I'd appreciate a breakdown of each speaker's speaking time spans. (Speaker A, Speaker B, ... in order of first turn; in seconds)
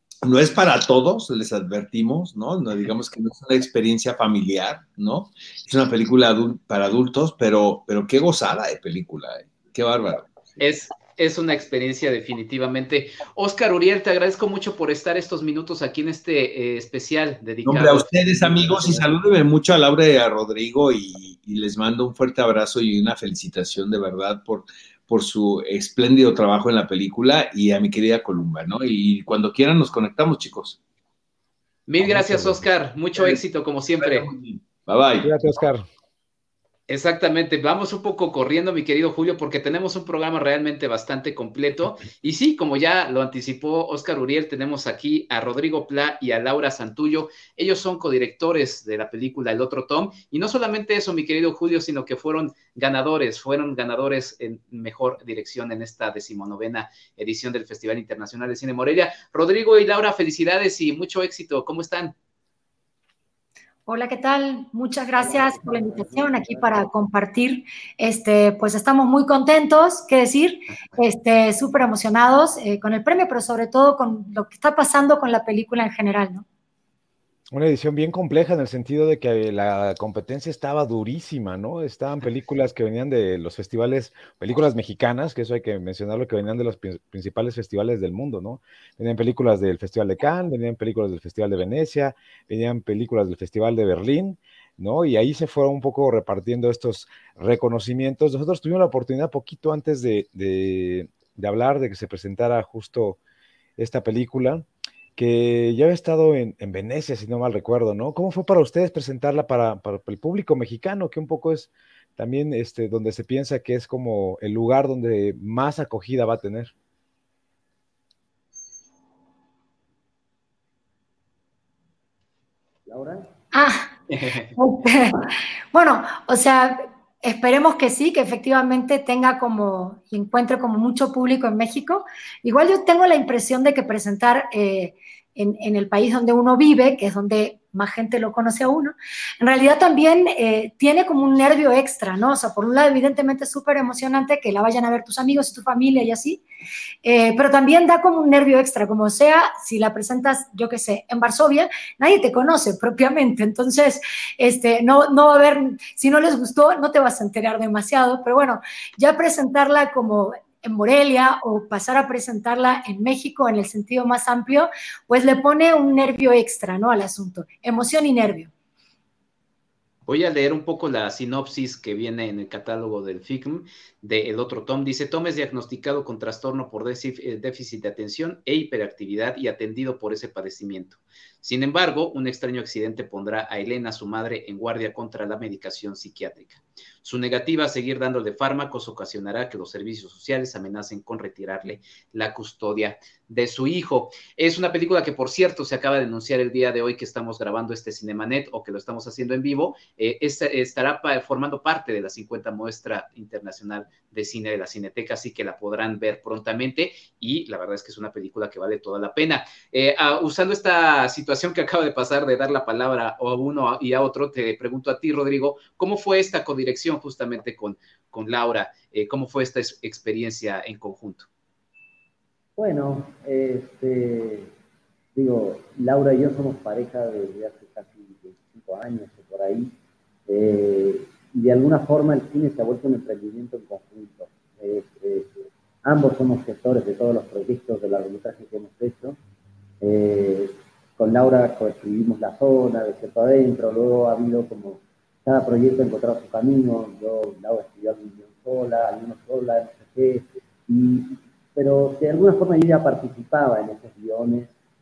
Speaker A: 0.2-10.4, 17.6-30.8, 34.0-35.3
Speaker B: 10.6-19.1, 31.9-34.3, 36.9-62.1, 124.1-124.5, 170.1-221.3
Speaker C: 32.1-32.6, 35.2-35.8, 77.5-103.2, 103.8-104.6, 105.2-116.7
Speaker D: 63.9-76.4, 123.5-123.9, 124.6-146.4, 147.0-168.5
Speaker E: 65.2-67.0, 122.9-123.3, 222.6-224.5, 225.1-229.7, 230.3-235.3, 235.8-239.2, 239.8-254.5